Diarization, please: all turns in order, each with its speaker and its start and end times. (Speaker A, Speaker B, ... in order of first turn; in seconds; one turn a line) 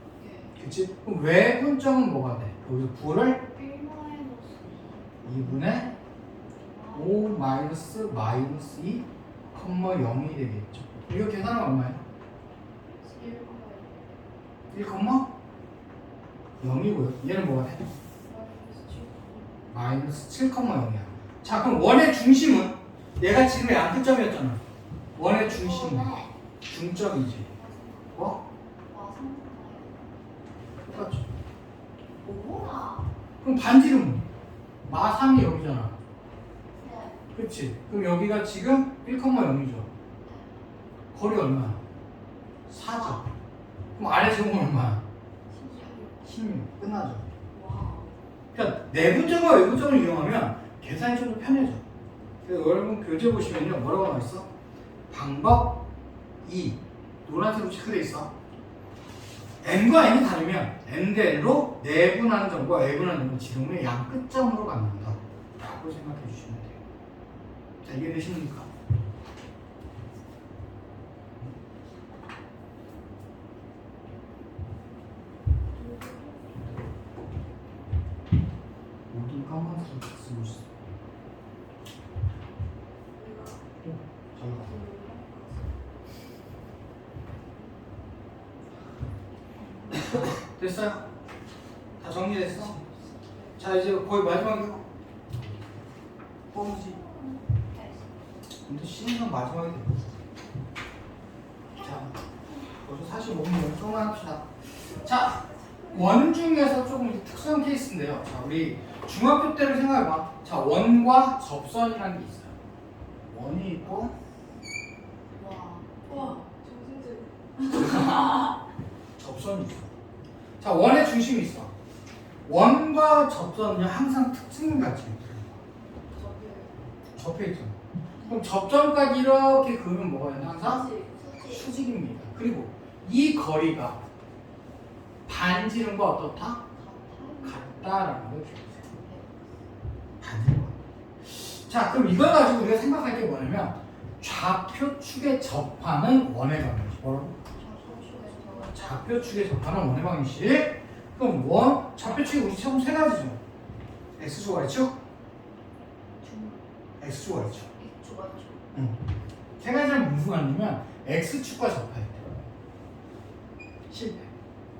Speaker A: 0.2-0.6
Speaker B: 0.6-3.4
Speaker A: 3.4-7.7
Speaker B: 5.2-5.9
Speaker B: 6.9-12.0
Speaker C: 13.1-14.1
Speaker B: 14.7-15.3
Speaker B: 16.6-17.9
Speaker C: 18.2-19.5
Speaker B: 19.7-24.6
Speaker B: 25.1-26.1
Speaker A: 25.3-26.3
Speaker B: 26.6-27.5
Speaker A: 27.6-28.3
Speaker B: 28.1-28.4
Speaker A: 28.9-30.0
Speaker B: 30.9-31.3
Speaker A: 32.2-33.1
Speaker B: 33.4-34.3
Speaker B: 34.9-36.0
Speaker A: 36.8-37.2
Speaker B: 37.3-39.9
Speaker A: 40.2-40.5
Speaker B: 41.1-41.8
Speaker B: 42.7-43.3
Speaker A: 42.9-43.3
Speaker B: 44.0-45.0
Speaker A: 45.5-46.1
Speaker B: 46.2-47.3
Speaker A: 47.5-48.1
Speaker B: 48.5-51.8
Speaker B: 52.5-54.5
Speaker B: 55.1-55.8
Speaker B: 56.4-58.3
Speaker B: 59.6-66.8
Speaker B: 67.8-68.7
Speaker C: 75.8-76.5
Speaker B: 79.1-80.7
Speaker C: 83.2-83.6
Speaker B: 83.8-84.8
Speaker C: 84.6-85.7
Speaker A: 89.6-90.4
Speaker B: 89.9-91.0
Speaker B: 92.0-92.8
Speaker B: 93.6-94.8
Speaker B: 96.5-97.0
Speaker A: 96.5-98.4
Speaker B: 98.7-100.0
Speaker B: 101.8-102.2
Speaker B: 102.7-112.5
Speaker C: 105.0-106.0
Speaker B: 113.3-114.1
Speaker A: 115.4-116.4
Speaker C: 116.1-118.0
Speaker B: 117.7-118.5
Speaker B: 119.2-119.9
Speaker B: 120.6-121.7
Speaker B: 122.5-125.6
Speaker C: 126.1-126.7
Speaker B: 127.2-130.9
Speaker A: 128.2-128.5
Speaker C: 130.7-131.0
Speaker A: 130.9-131.7
Speaker B: 131.5-134.0
Speaker B: 135.3-136.6
Speaker A: 136.8-138.0
Speaker B: 137.4-138.9
Speaker A: 139.0-139.5
Speaker B: 140.2-147.3
Speaker A: 147.6-149.1
Speaker B: 148.5-153.4
Speaker B: 154.2-154.9
Speaker A: 156.2-156.7
Speaker B: 157.0-157.7
Speaker A: 157.8-158.7
Speaker B: 159.6-162.3
Speaker B: 163.9-164.3